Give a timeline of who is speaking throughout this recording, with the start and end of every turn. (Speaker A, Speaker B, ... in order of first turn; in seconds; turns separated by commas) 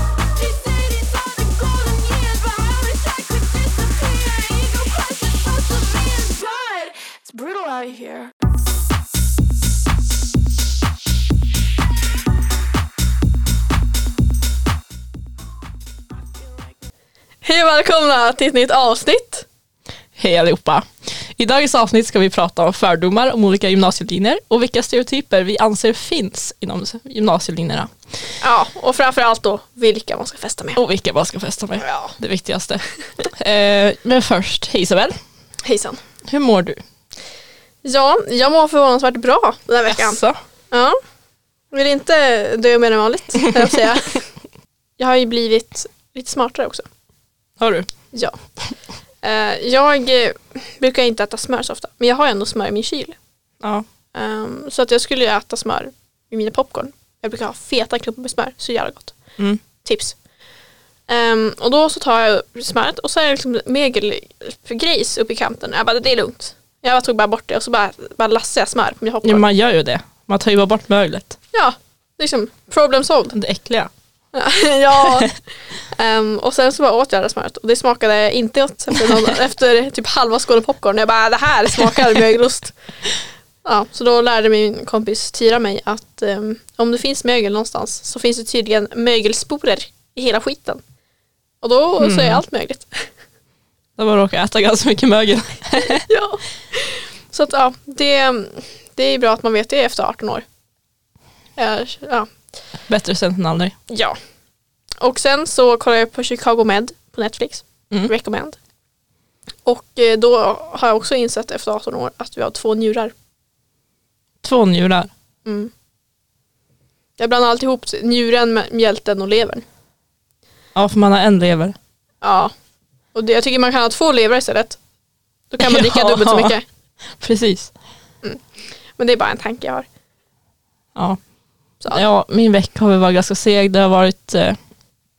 Speaker A: 0.3-8.3, Speaker A: 16.1-16.9, Speaker B: 17.4-19.4, Speaker C: 20.1-27.9, Speaker B: 28.4-30.8, Speaker C: 30.7-35.1, Speaker B: 31.8-32.1, Speaker B: 35.6-36.0, Speaker C: 36.2-36.8, Speaker B: 37.8-41.0, Speaker C: 39.9-40.4, Speaker B: 41.7-44.3, Speaker B: 45.0-46.8, Speaker C: 47.6-47.9, Speaker B: 49.2-53.2, Speaker C: 53.6-53.9, Speaker B: 54.1-59.2, Speaker B: 59.8-60.2, Speaker B: 61.1-69.4, Speaker C: 69.2-71.4, Speaker B: 71.5-73.3, Speaker C: 73.3-73.9, Speaker B: 74.3-82.8, Speaker B: 83.6-90.8, Speaker B: 91.6-93.1, Speaker C: 92.0-92.4, Speaker C: 94.0-96.0, Speaker B: 95.8-100.4, Speaker B: 101.6-102.3, Speaker C: 102.9-103.7, Speaker B: 103.9-104.2, Speaker B: 105.0-108.6, Speaker B: 109.6-113.1, Speaker C: 114.4-115.1, Speaker B: 115.4-115.7, Speaker B: 117.2-119.6, Speaker C: 120.7-121.8, Speaker B: 122.2-122.5, Speaker B: 123.1-124.8, Speaker B: 125.5-126.6, Speaker C: 125.6-126.5, Speaker C: 127.2-127.7, Speaker B: 128.2-129.8, Speaker C: 131.9-134.6